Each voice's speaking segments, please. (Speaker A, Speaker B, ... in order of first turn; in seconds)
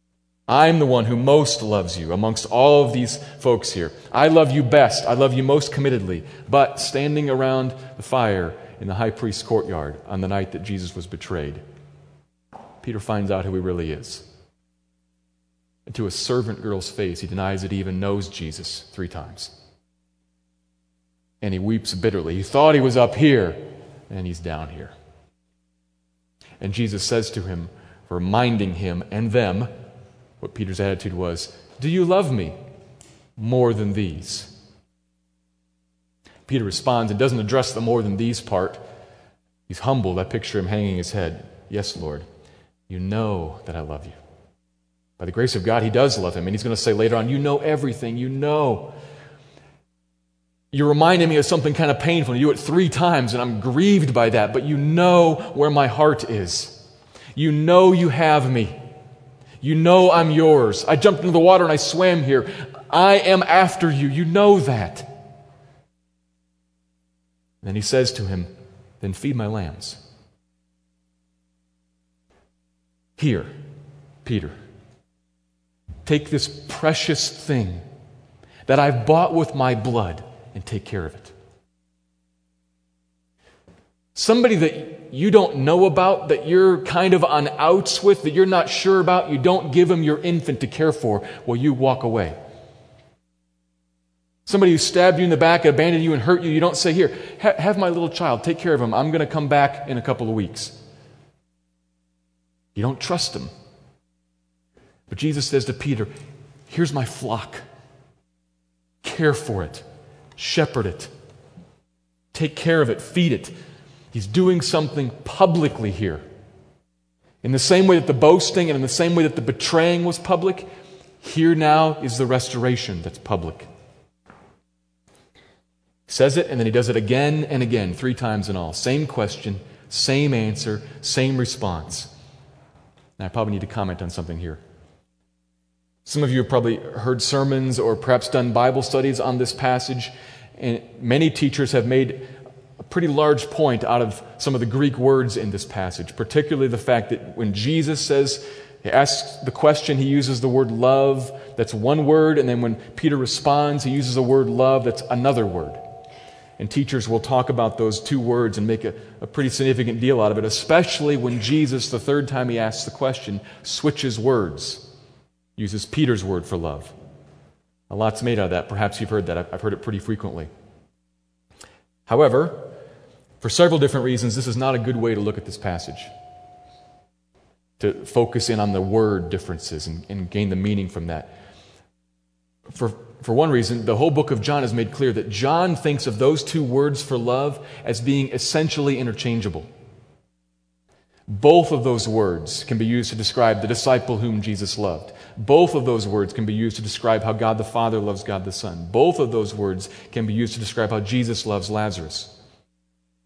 Speaker A: 0.5-11.6, 12.8-14.2, 15.9-19.5, 21.4-24.9, 26.6-29.7, 30.4-32.6, 33.4-34.5, 36.5-38.8, 39.7-42.3, 42.9-44.2, 45.2-48.9, 50.7-56.8, 57.4-58.8, 59.6-65.1, 67.6-68.5, 69.0-70.0, 73.2-73.5, 74.2-74.5, 76.0-77.8, 78.7-81.3, 84.2-92.4, 94.5-100.8, 102.8-103.5, 105.1-106.1, 106.7-107.6, 109.0-109.8, 110.4-111.1, 112.3-113.5, 114.1-116.2, 117.4-120.7, 121.2-123.7, 126.1-132.1, 133.2-134.6, 136.1-155.8, 156.6-164.8, 165.6-166.9, 167.9-170.5, 172.1-172.7, 173.4-176.1, 177.8-181.4, 182.7-189.7, 191.3-202.3